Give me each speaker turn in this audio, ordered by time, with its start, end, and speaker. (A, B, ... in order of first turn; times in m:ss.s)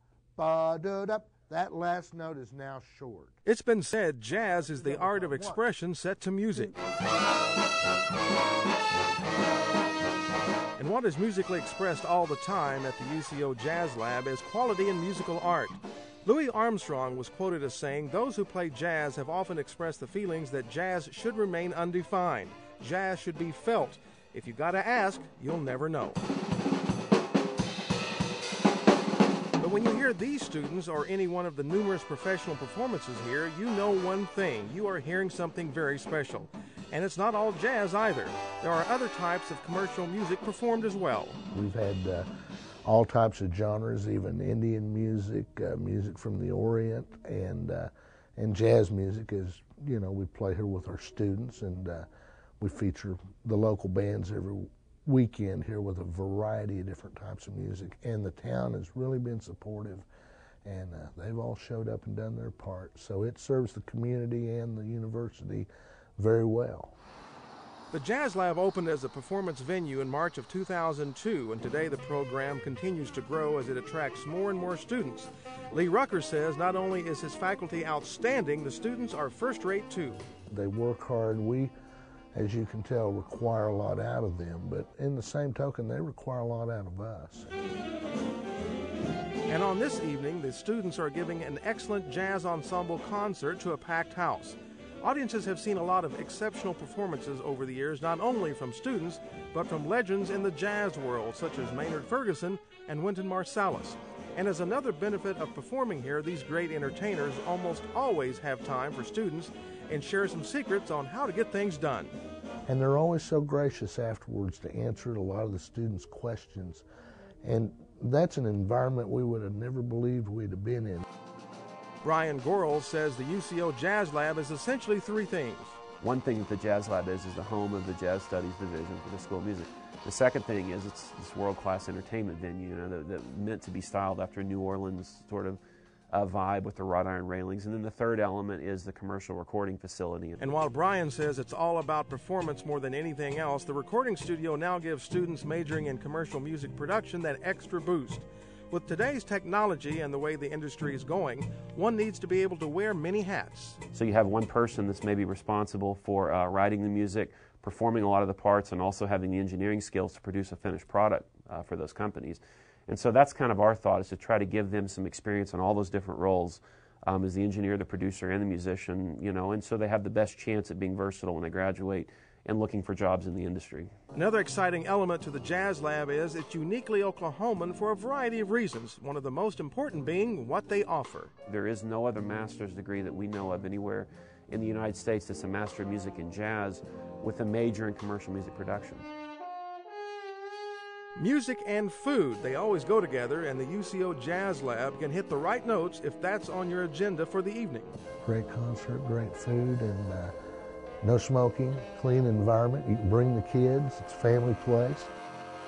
0:00.4-0:03.4 A
0:03.4-0:06.7 B
0:04.3-0:05.6 A
0:10.8-0:26.2 B
0:29.6-0:41.4 B
0:41.5-0:42.3 A
0:42.8-0:52.1 A
0:52.6-1:00.0 A
1:00.6-1:07.0 A
1:07.9-1:20.3 B
1:20.5-1:21.7 A
1:22.3-1:27.5 A
1:29.5-1:52.1 B
1:52.7-1:56.8 A
1:57.4-2:01.0 A
2:02.0-2:05.8 B
2:06.0-2:15.6 C
2:16.1-2:20.4 C
2:20.4-2:33.8 B
2:33.9-2:53.9 C
2:54.1-3:01.3 B
3:01.4-3:09.1 C
3:11.2-3:18.0 B
3:18.2-3:20.3 A
3:21.0-3:25.1 A